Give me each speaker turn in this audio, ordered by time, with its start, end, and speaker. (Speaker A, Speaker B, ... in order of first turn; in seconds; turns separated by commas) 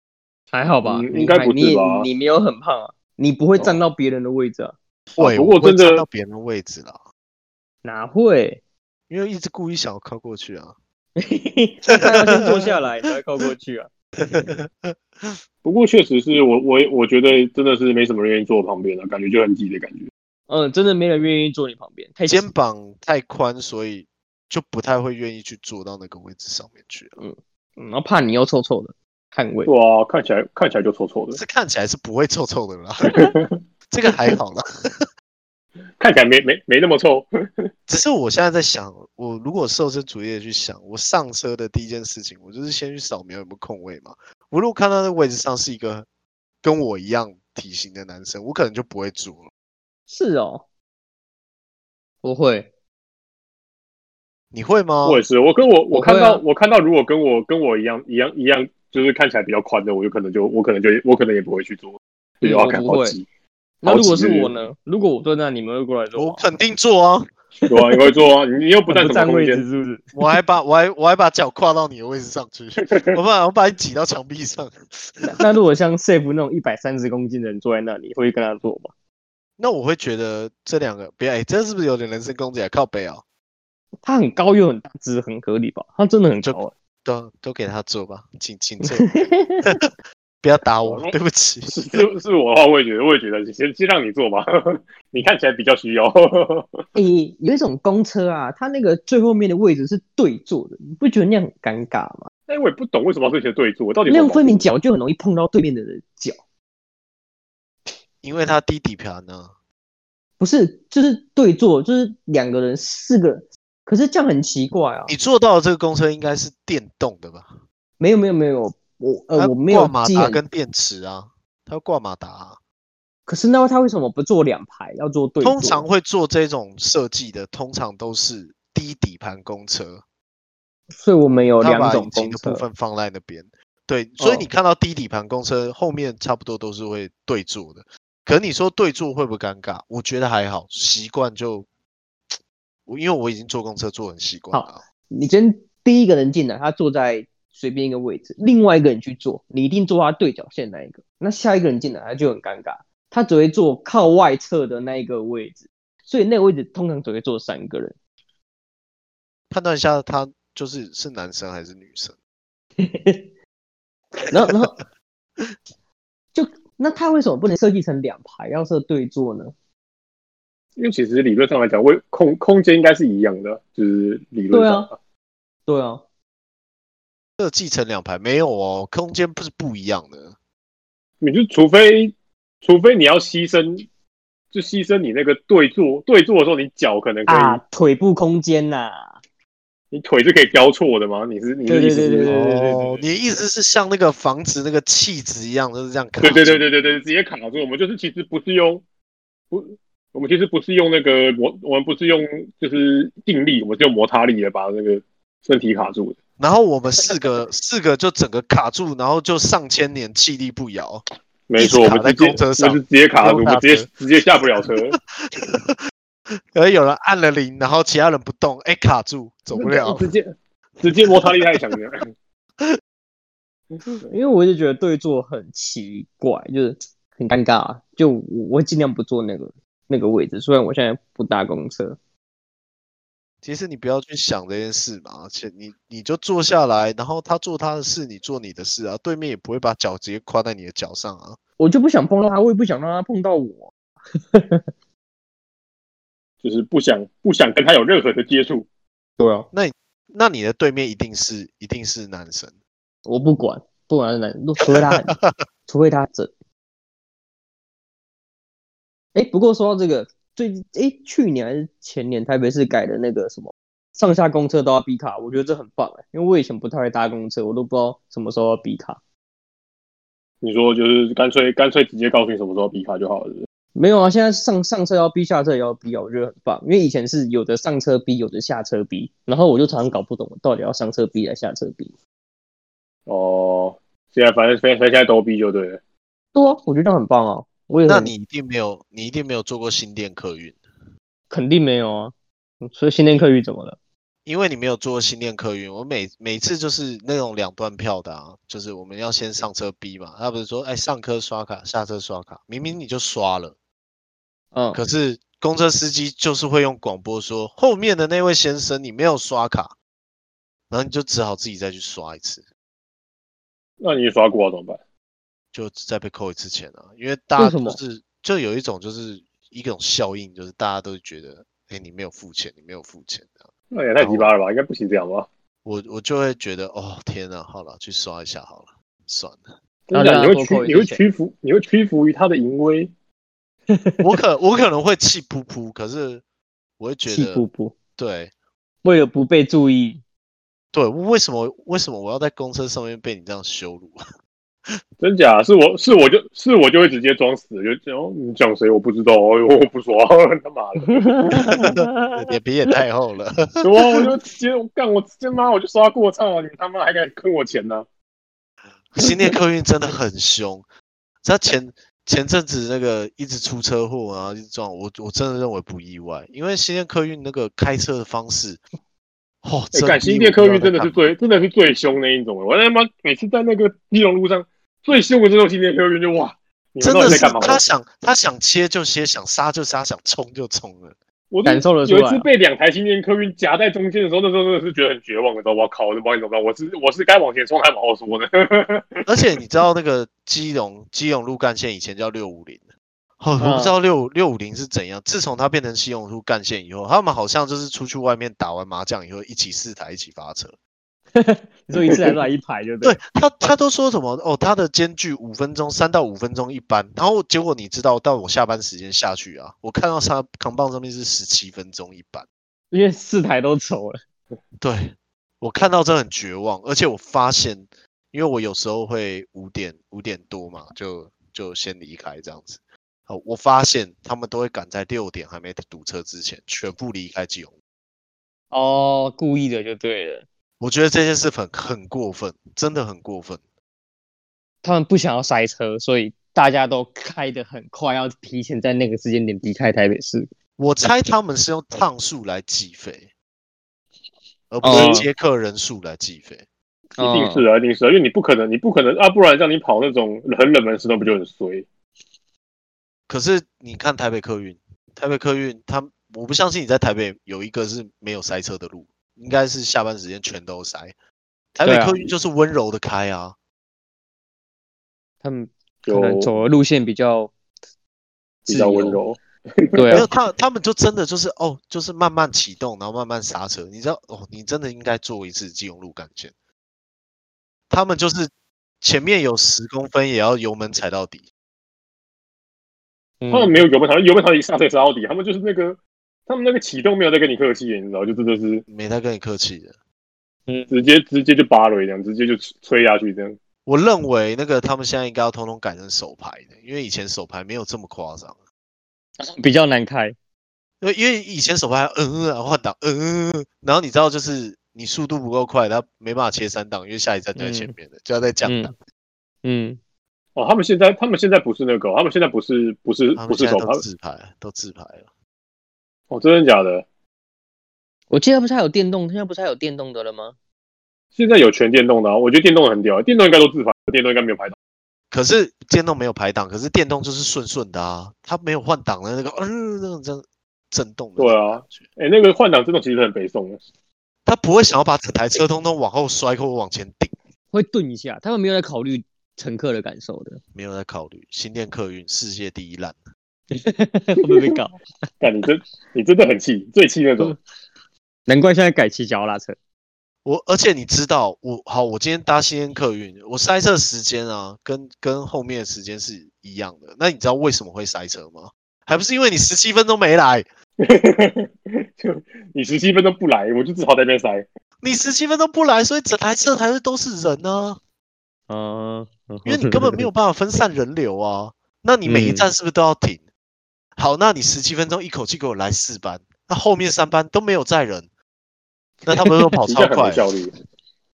Speaker A: 0.5-4.8, Speaker B: 0.8-2.1, Speaker C: 5.1-7.0, Speaker B: 5.2-6.0, Speaker A: 7.8-8.6, Speaker C: 9.1-10.8, Speaker A: 11.2-13.9, Speaker C: 11.9-12.9, Speaker C: 14.2-15.4, Speaker B: 15.6-20.1, Speaker A: 20.5-22.5, Speaker C: 22.3-27.2, Speaker A: 27.2-29.7, Speaker B: 29.7-31.4, Speaker C: 31.3-33.3, Speaker B: 33.1-33.5, Speaker C: 33.9-35.1, Speaker B: 36.0-37.3, Speaker C: 37.9-46.1, Speaker C: 46.6-49.5, Speaker A: 50.1-50.6, Speaker A: 52.2-52.7, Speaker C: 54.5-55.2, Speaker B: 55.0-63.2, Speaker A: 55.9-56.4, Speaker A: 62.4-63.2, Speaker A: 63.8-66.4, Speaker B: 63.9-64.5, Speaker C: 66.2-67.3, Speaker A: 67.7-68.1, Speaker B: 67.7-69.7, Speaker A: 68.9-70.2, Speaker C: 70.2-75.5, Speaker B: 72.8-73.2, Speaker A: 75.3-78.9, Speaker C: 79.6-83.2, Speaker A: 84.0-86.7, Speaker C: 86.4-89.1, Speaker A: 88.8-89.8, Speaker C: 90.4-92.0, Speaker B: 90.8-91.2, Speaker B: 91.7-96.8, Speaker A: 97.0-102.3, Speaker B: 102.5-104.7, Speaker A: 104.1-106.4, Speaker C: 108.2-109.5, Speaker A: 110.4-115.1, Speaker C: 115.1-117.6, Speaker A: 118.0-120.4, Speaker C: 119.3-122.6, Speaker A: 123.3-125.8, Speaker C: 125.4-130.0, Speaker A: 130.9-132.7, Speaker C: 131.6-141.7, Speaker A: 134.2-134.5, Speaker C: 142.9-144.8, Speaker A: 144.5-158.0, Speaker C: 159.5-162.2, Speaker A: 162.8-163.3, Speaker A: 164.3-164.8, Speaker A: 166.3-169.5, Speaker B: 170.8-175.0, Speaker A: 174.5-174.9, Speaker A: 175.7-176.0, Speaker C: 177.4-180.3, Speaker B: 181.2-183.9, Speaker B: 184.5-187.6, Speaker A: 187.3-189.2, Speaker B: 189.9-192.4, Speaker A: 191.7-193.0, Speaker C: 192.2-196.6, Speaker B: 196.2-198.8, Speaker B: 199.5-206.2, Speaker C: 206.4-211.0, Speaker B: 211.5-215.0, Speaker C: 211.6-213.9, Speaker C: 214.6-215.8, Speaker C: 216.5-220.1, Speaker B: 219.5-222.1, Speaker C: 220.8-221.1, Speaker A: 224.1-232.0, Speaker C: 233.4-241.4, Speaker A: 241.6-243.7, Speaker A: 244.3-244.6, Speaker B: 246.4-248.7, Speaker A: 249.2-249.5, Speaker C: 249.5-252.6, Speaker A: 253.1-256.3, Speaker C: 254.7-255.3, Speaker A: 259.1-269.0, Speaker B: 270.4-273.5, Speaker A: 273.8-281.9, Speaker B: 283.1-285.8, Speaker A: 286.4-288.1, Speaker C: 287.8-290.6, Speaker A: 291.3-293.8, Speaker C: 294.2-303.6, Speaker A: 304.5-304.8, Speaker C: 304.7-309.8, Speaker C: 310.7-312.4, Speaker B: 313.8-314.8, Speaker C: 315.5-323.5, Speaker A: 317.4-317.8, Speaker B: 323.7-325.3, Speaker C: 324.0-324.3, Speaker C: 325.6-329.5, Speaker B: 329.9-332.9, Speaker A: 329.9-331.0, Speaker A: 333.7-334.1, Speaker C: 334.0-336.2, Speaker C: 336.8-337.4, Speaker A: 337.1-337.8, Speaker C: 338.0-338.3, Speaker A: 338.8-340.0, Speaker C: 340.7-344.0, Speaker B: 345.0-351.7, Speaker A: 351.0-352.2, Speaker C: 351.5-353.6, Speaker B: 353.6-357.9, Speaker C: 358.9-360.7, Speaker C: 361.2-368.6, Speaker C: 369.4-371.1, Speaker B: 369.7-377.6, Speaker C: 376.8-380.9, Speaker B: 381.3-389.1, Speaker A: 381.4-382.3, Speaker C: 389.1-392.6, Speaker C: 393.2-400.6, Speaker A: 393.4-393.8, Speaker A: 401.1-403.0, Speaker C: 402.8-412.3, Speaker A: 412.7-414.0, Speaker C: 414.6-427.5, Speaker A: 428.5-430.2, Speaker C: 430.6-433.4, Speaker A: 434.6-440.3, Speaker C: 440.6-443.1, Speaker C: 444.5-446.4, Speaker A: 444.6-445.1, Speaker B: 444.7-445.0, Speaker A: 447.0-447.5, Speaker B: 447.0-451.7, Speaker C: 453.1-460.9, Speaker C: 461.6-463.4, Speaker A: 461.6-462.1, Speaker A: 465.2-467.3, Speaker B: 465.9-466.4, Speaker B: 468.5-470.1, Speaker A: 468.5-469.0, Speaker A: 469.8-470.1, Speaker C: 469.9-476.3, Speaker C: 477.7-478.3, Speaker C: 478.8-481.2, Speaker A: 483.2-483.6, Speaker B: 483.3-488.6, Speaker C: 488.7-489.8, Speaker B: 490.7-493.4, Speaker C: 493.7-498.4, Speaker A: 499.2-500.1, Speaker C: 500.8-508.7, Speaker A: 507.4-507.7, Speaker A: 508.4-508.7, Speaker A: 509.4-509.8, Speaker B: 510.4-513.8, Speaker C: 513.2-515.1, Speaker B: 516.1-516.9, Speaker A: 518.1-520.4, Speaker B: 521.2-524.6, Speaker C: 525.1-531.9, Speaker B: 531.2-533.6, Speaker C: 534.2-537.1, Speaker A: 537.5-540.4, Speaker C: 540.5-543.0, Speaker A: 543.5-544.8, Speaker B: 545.2-547.4, Speaker A: 548.3-549.6, Speaker C: 550.2-560.5, Speaker B: 560.8-564.5, Speaker C: 564.8-567.8, Speaker A: 568.5-570.1, Speaker C: 569.5-573.2, Speaker A: 572.1-572.5, Speaker C: 574.0-578.1, Speaker C: 579.0-580.2, Speaker A: 579.2-579.6, Speaker B: 579.7-580.5